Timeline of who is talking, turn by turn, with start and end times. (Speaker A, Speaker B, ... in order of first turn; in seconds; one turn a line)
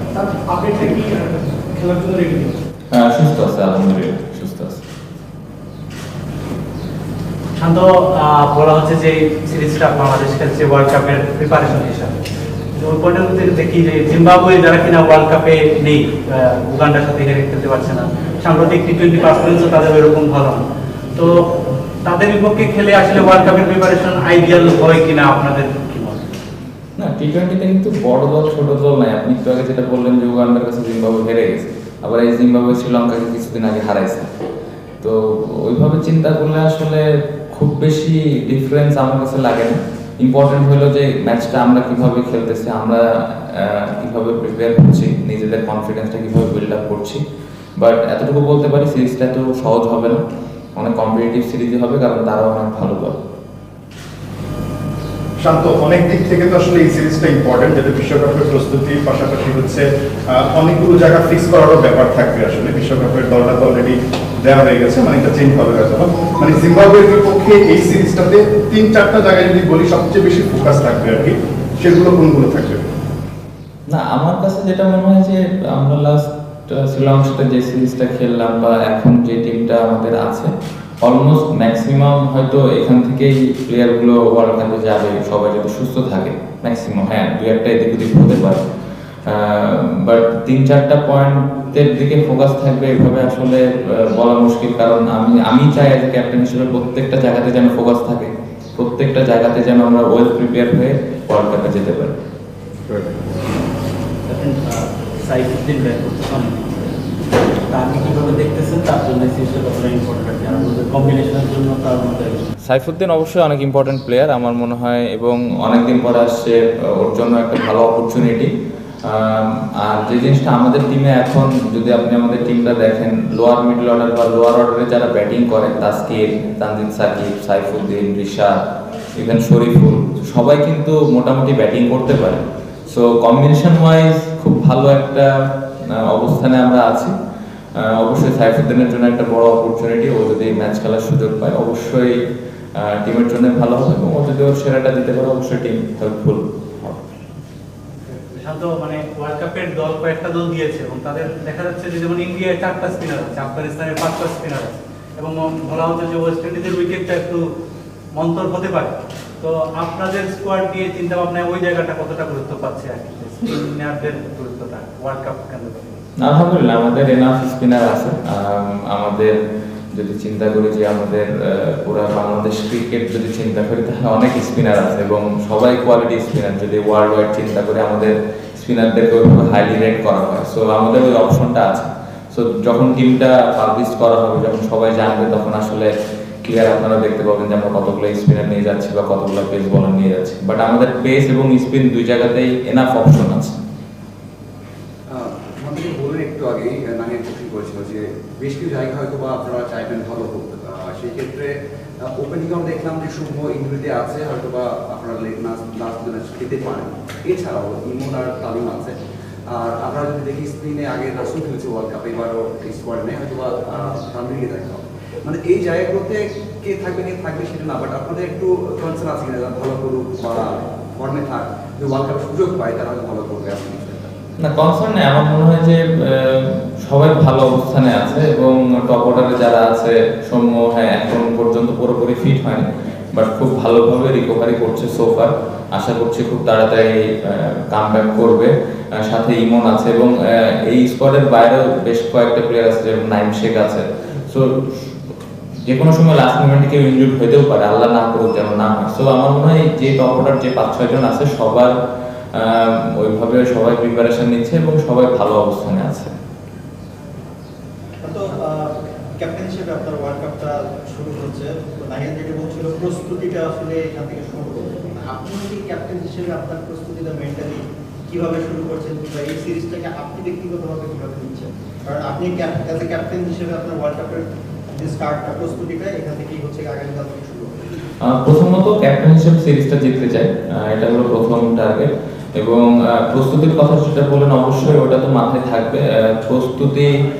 Speaker A: 0.1-1.0
Speaker A: 1.6-2.5
Speaker B: 2.9-4.8
Speaker C: 7.6-12.2
Speaker C: 12.7-26.4
Speaker B: 27.0-34.3
Speaker B: 35.0-47.2
Speaker B: 47.8-50.2
Speaker B: 50.8-53.1
Speaker D: 55.4-72.8
Speaker B: 73.9-88.6
Speaker B: 89.2-102.1
Speaker E: 104.3-106.9
Speaker E: 107.7-112.5
Speaker B: 112.6-118.5
Speaker B: 119.0-128.6
Speaker B: 129.2-135.3
Speaker B: 135.8-137.1
Speaker B: 137.8-142.2
Speaker B: 142.8-147.0
Speaker C: 148.1-157.5
Speaker C: 158.1-166.0
Speaker B: 166.2-169.3
Speaker B: 169.9-185.9
Speaker B: 186.4-193.5
Speaker F: 195.1-201.5
Speaker F: 202.2-208.9
Speaker F: 209.5-224.1
Speaker B: 224.4-244.5
Speaker B: 245.7-251.7
Speaker B: 252.3-256.1
Speaker A: 258.0-277.6
Speaker B: 278.0-286.9